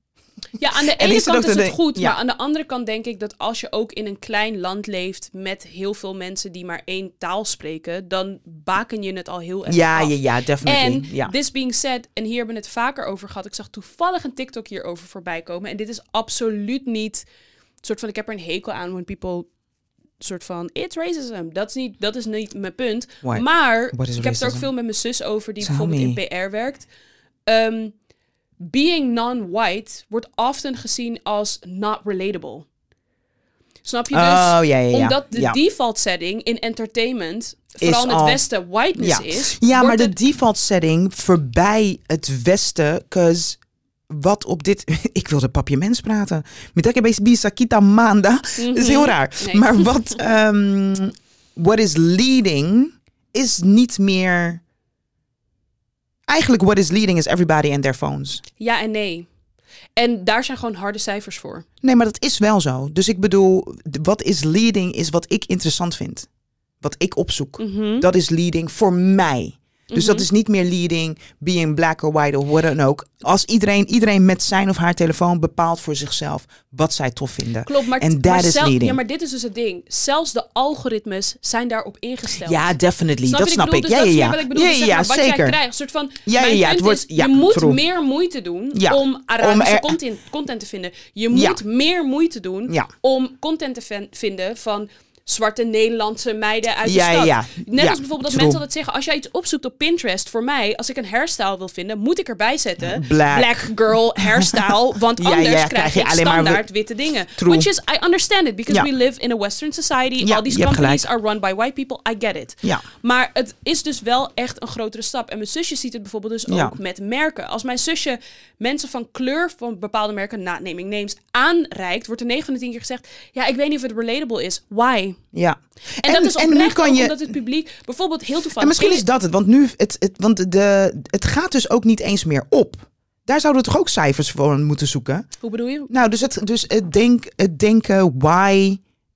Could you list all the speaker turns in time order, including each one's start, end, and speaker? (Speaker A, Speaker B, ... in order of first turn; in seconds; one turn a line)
Speaker A: 0.6-17.2
Speaker B: 0.9-2.2
Speaker B: 9.7-11.3
Speaker A: 17.8-19.5
Speaker A: 20.2-26.9
Speaker B: 23.2-24.7
Speaker B: 25.6-26.2
Speaker A: 27.5-27.9
Speaker A: 28.6-32.7
Speaker A: 33.8-40.2
Speaker B: 34.1-35.6
Speaker B: 37.8-38.4
Speaker B: 39.0-43.6
Speaker B: 44.1-54.6
Speaker A: 48.6-50.2
Speaker B: 56.3-58.4
Speaker A: 58.6-59.3
Speaker A: 60.0-61.6
Speaker B: 61.8-66.3
Speaker B: 66.8-79.0
Speaker A: 67.6-68.1
Speaker A: 69.9-70.3
Speaker A: 77.7-82.7
Speaker B: 82.4-85.6
Speaker A: 83.3-125.2
Speaker B: 86.3-87.8
Speaker B: 88.7-90.0
Speaker B: 91.3-91.6
Speaker B: 96.8-98.6
Speaker B: 102.8-106.7
Speaker B: 107.4-107.7
Speaker B: 110.2-111.1
Speaker B: 116.5-116.8
Speaker B: 125.3-127.2
Speaker A: 126.0-129.1
Speaker B: 128.6-135.3
Speaker A: 135.4-135.9
Speaker B: 135.9-138.8